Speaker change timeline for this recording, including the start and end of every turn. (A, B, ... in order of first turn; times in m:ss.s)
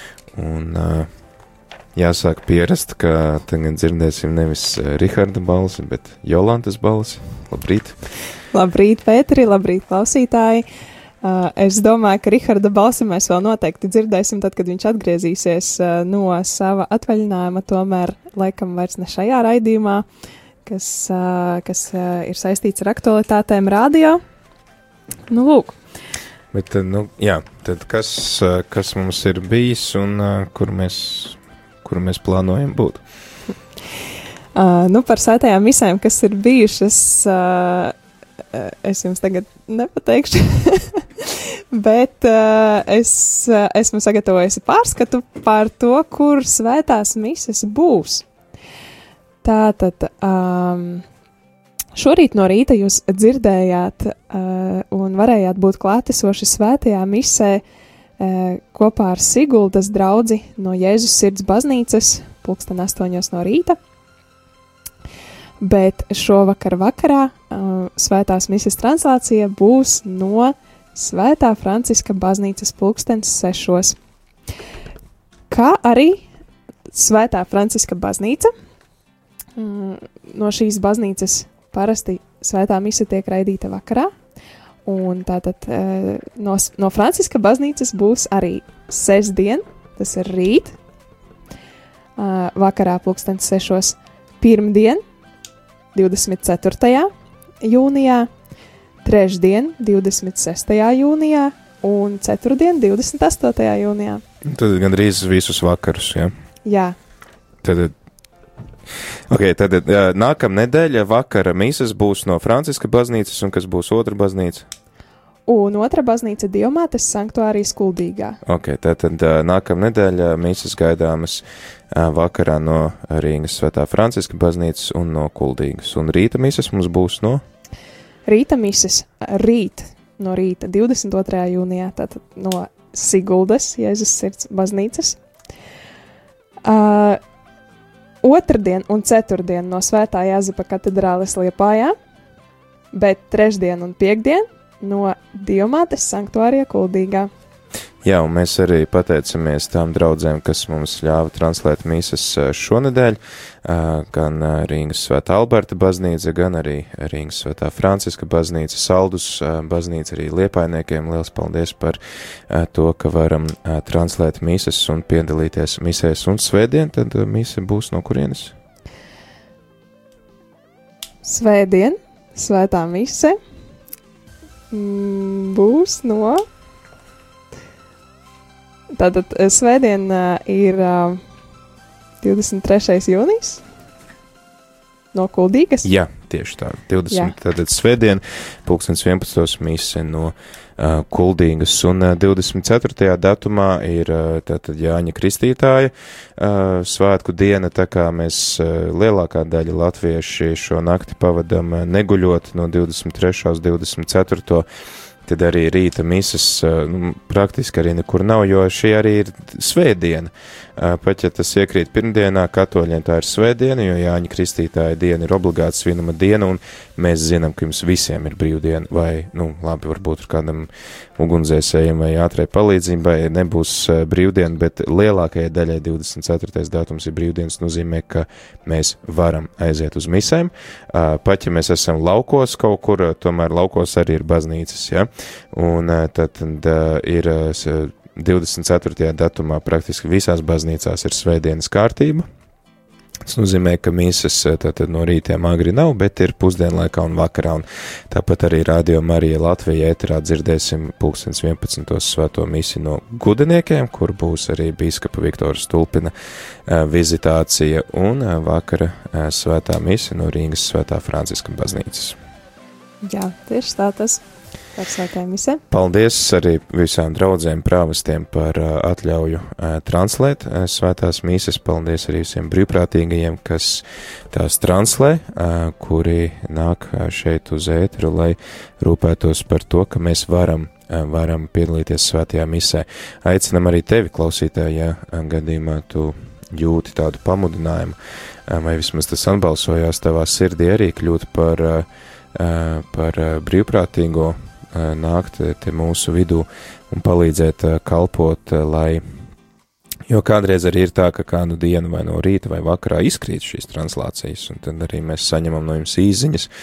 0:00.4-0:01.1 A
0:02.0-0:08.0 A
0:08.5-0:10.7 B
0:11.2-0:20.0 B
0:20.6-0:24.2 B
0:25.3-0:25.8 B
0:26.5-0:33.0 A
0:34.6-0:38.0 B
0:38.5-0:48.2 B
0:49.4-0:51.0 B
0:52.0-0:57.6 B
0:58.2-1:03.8 B
1:05.6-1:14.0 B
1:15.5-1:16.2 B
1:16.9-1:18.5 B
1:19.6-1:24.1 B
1:24.8-1:30.8 B
1:32.2-1:35.0 B
1:36.0-1:37.1 B
1:37.6-1:38.3 B
1:39.0-1:44.2 B
1:44.4-1:46.3 A
1:46.6-1:47.0 B
1:47.6-1:47.9 A
1:49.3-1:54.7 A
1:55.5-1:58.4 B
1:58.4-2:07.4 A
2:08.3-2:15.2 B
2:16.6-2:17.2 B
2:18.2-2:21.9 B
2:22.9-2:27.3 B
2:28.0-2:42.0 A
2:42.5-2:48.6 A
2:51.2-2:53.4 B
2:54.7-2:56.4 B
2:59.0-3:01.2 B
3:02.2-3:03.6 B
3:05.1-3:05.9 B
3:05.8-3:24.7 A
3:07.1-3:07.4 B
3:25.3-4:02.3 A
4:03.3-4:16.1 A
4:16.7-4:22.2 A
4:23.0-4:24.2 B
4:24.8-4:25.6 B
4:25.7-4:59.0 A
5:00.1-5:06.5 A